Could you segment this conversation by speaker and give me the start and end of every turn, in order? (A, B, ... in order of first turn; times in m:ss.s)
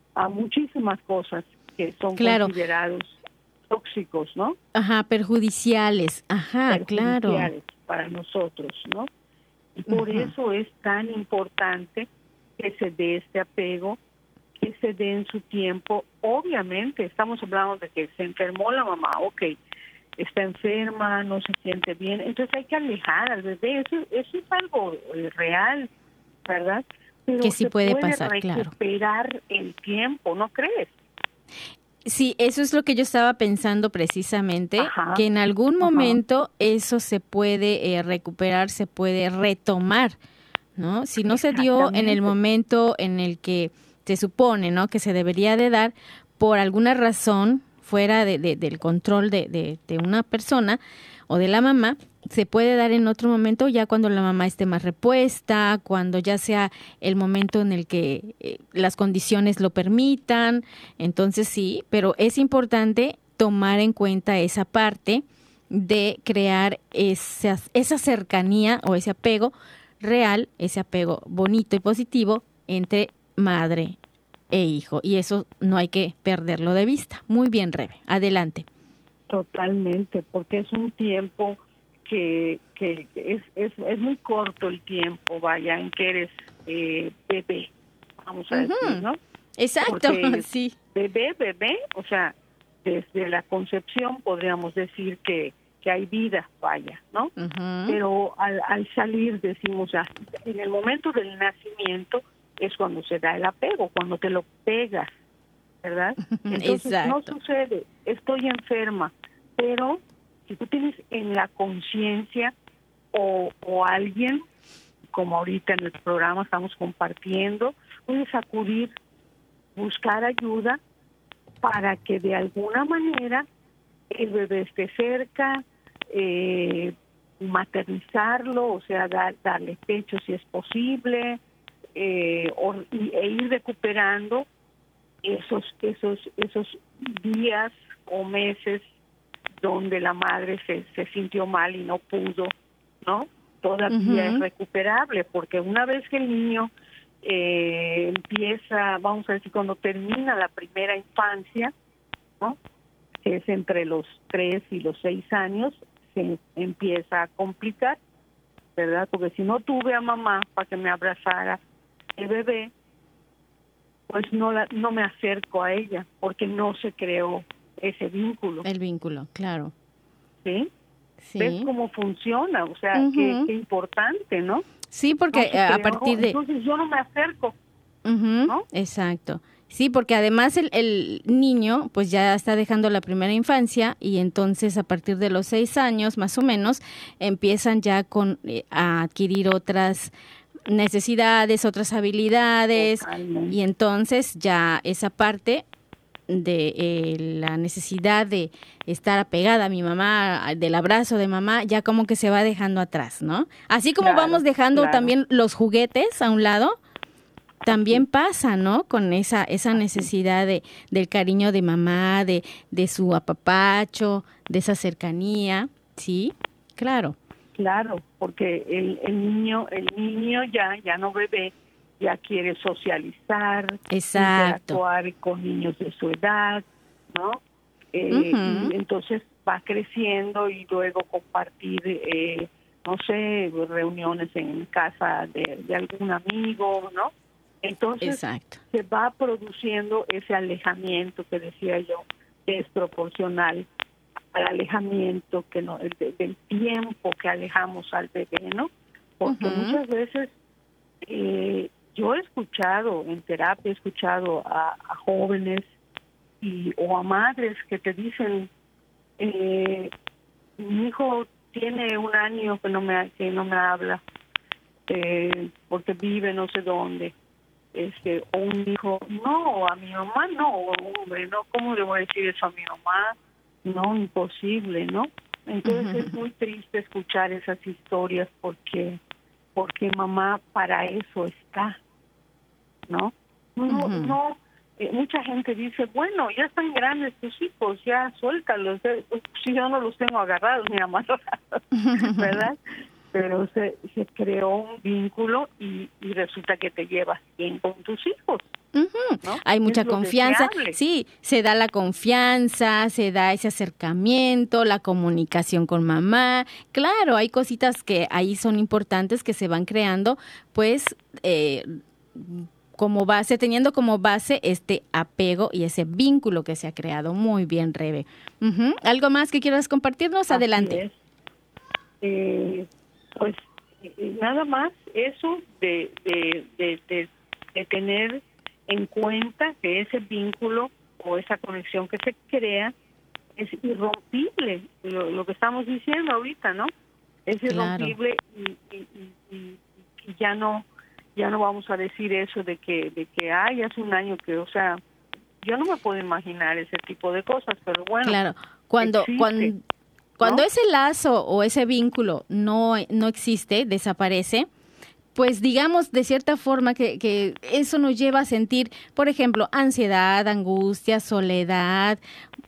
0:00.2-0:03.2 A
0:02.2-0:02.5 B
0:03.7-0:04.6 A
0:04.7-0:07.5 B
0:06.7-0:09.1 A
0:09.8-0:14.0 A
0:09.9-0:10.3 B
0:14.6-0:19.5 A
0:20.2-0:25.9 A
0:26.4-0:30.9 A
0:27.4-0:28.7 B
0:32.0-0:40.2 B
0:34.8-0:35.2 A
0:35.8-0:36.2 A
0:40.8-1:14.0 B
0:41.2-0:42.3 A
1:14.5-1:18.6 B
1:19.3-1:29.2 A
1:28.5-1:29.0 B
1:29.6-1:30.7 B
1:29.8-1:37.3 A
1:37.4-1:38.0 B
1:37.9-1:45.1 A
1:45.8-1:52.5 A
1:46.3-1:47.3 B
1:53.1-1:54.4 A
1:55.1-1:58.9 A
1:59.8-2:00.8 A
2:01.6-2:03.4 A
2:04.1-2:11.4 A
2:12.0-2:14.4 A
2:15.2-2:18.8 A
2:19.6-2:26.7 A
2:23.9-2:24.4 B
2:27.2-2:31.7 A
2:33.2-2:38.0 A
2:38.8-2:41.6 A
2:42.2-2:42.7 A
2:44.1-2:48.6 A
2:48.6-2:49.7 B
2:50.4-2:50.7 A
2:51.2-2:51.7 B
2:51.4-2:54.6 A
2:52.9-2:53.5 B
2:54.9-2:56.4 B
2:55.3-2:57.5 A
2:58.0-3:10.1 B
3:10.7-3:15.6 B
3:12.7-3:13.6 A
3:16.3-3:26.8 B
3:24.0-3:25.1 A
3:27.6-3:28.0 A
3:27.6-3:37.2 B
3:29.8-3:30.1 A
3:37.6-3:47.4 A
3:43.9-3:44.8 B
3:47.9-4:03.7 A
3:48.1-3:48.7 B
3:58.0-3:58.6 B
4:04.3-4:10.3 A
4:09.2-4:09.8 B
4:11.0-4:15.7 A
4:16.4-4:18.5 A
4:19.2-4:19.9 A
4:20.6-4:24.0 A
4:24.9-4:27.1 A
4:27.7-4:39.0 A
4:35.6-4:36.1 B
4:39.5-4:41.8 A
4:42.9-4:52.6 A
4:43.7-4:44.2 B
4:51.7-4:52.4 B
4:53.1-4:58.4 A
4:58.7-5:20.8 B
4:59.2-5:00.8 A
5:20.3-5:20.9 A
5:22.0-5:32.7 A
5:33.4-5:36.7 A
5:37.2-5:44.8 A
5:37.5-5:37.9 B
5:45.4-5:48.2 A
5:48.0-5:49.6 B
5:48.8-5:49.5 A
5:50.2-5:54.5 B
5:55.1-6:02.0 B